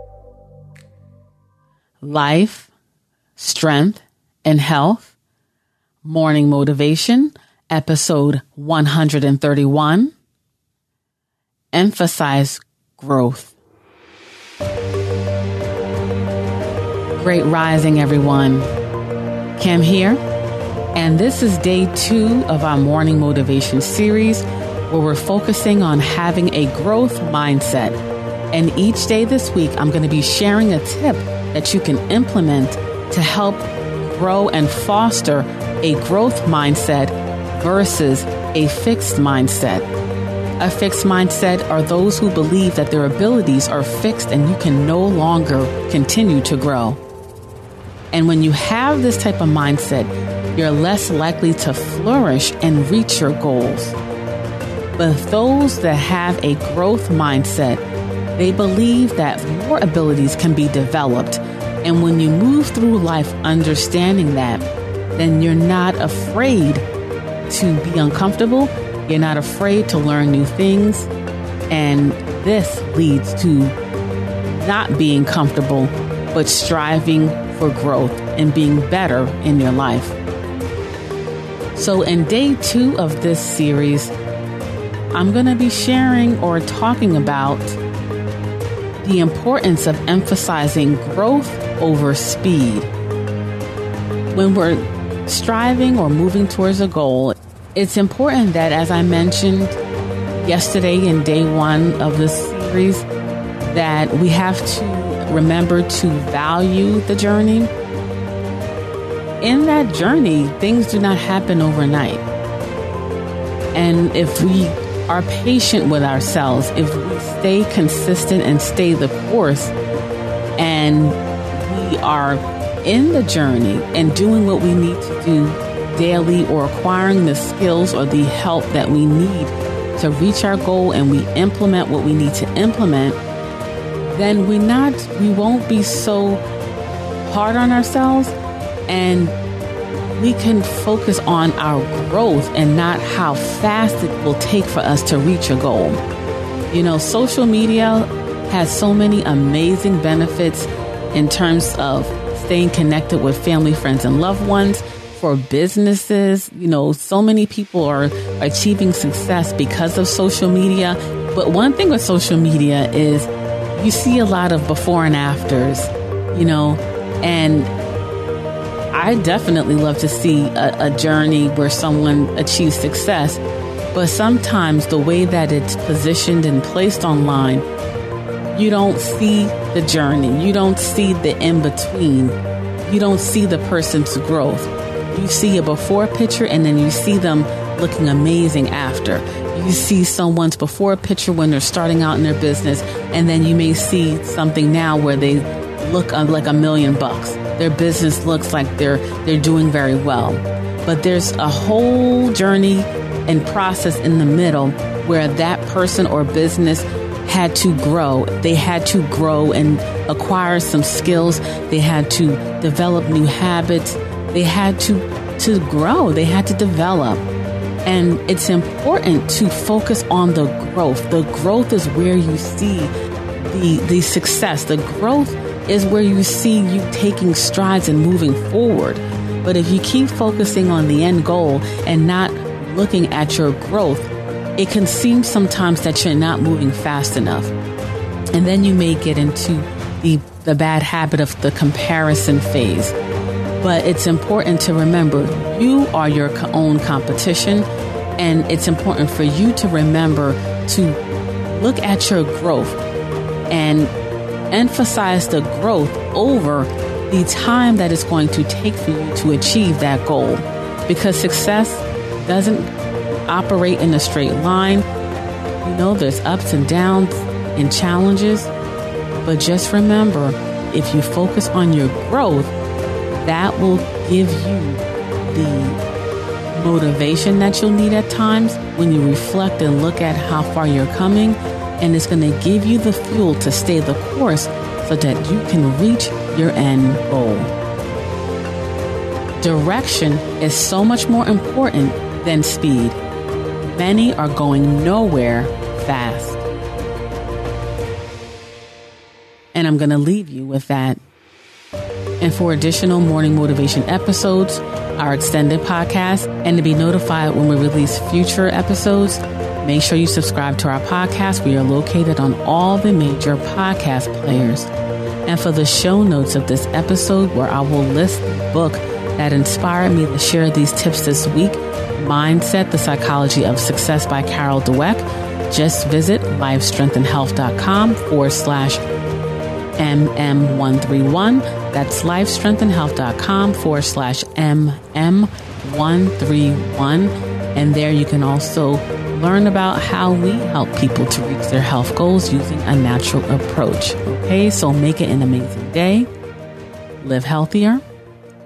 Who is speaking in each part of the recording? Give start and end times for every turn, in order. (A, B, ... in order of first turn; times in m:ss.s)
0:02.0-0:02.7 A
0:03.4-0:05.1 A
0:06.0-0:10.1 A
0:11.7-0:13.6 A
0:17.2-0:18.7 A
0:19.6-0:20.2 A
0:21.0-0:28.0 A
0:28.5-0:39.9 A
0:40.6-0:47.0 A
0:48.1-0:54.0 A
0:55.0-0:57.8 A
0:58.4-1:04.6 A
1:05.2-1:06.8 A
1:07.5-1:11.1 A
1:11.7-1:13.8 A
1:14.4-1:20.2 A
1:21.8-1:24.1 A
1:25.1-1:27.8 A
1:29.0-1:32.9 A
1:34.3-1:39.8 A
1:40.4-1:43.1 A
1:43.6-1:47.7 A
1:49.4-1:52.2 A
1:53.7-1:59.7 A
2:00.6-2:13.2 A
2:14.1-2:16.4 A
2:17.2-2:18.3 A
2:18.9-2:19.4 A
2:20.1-2:26.0 A
2:26.7-2:47.7 A
2:48.9-2:53.4 A
2:53.9-2:57.6 A
2:58.5-3:37.2 A
3:37.8-3:57.5 A
3:58.3-4:02.9 A
4:03.6-4:07.7 A
4:08.2-4:12.8 A
4:13.5-4:13.9 A
4:14.5-4:22.7 A
4:23.3-4:24.8 A
4:25.6-4:28.5 A
4:29.2-4:32.5 A
4:33.1-4:35.8 A
4:36.5-4:47.5 A
4:49.4-4:53.0 A
4:53.6-4:56.5 A
4:59.6-5:01.0 A
5:02.2-5:14.7 A
5:15.3-5:28.8 A
5:29.8-5:46.1 A
5:47.0-5:47.8 A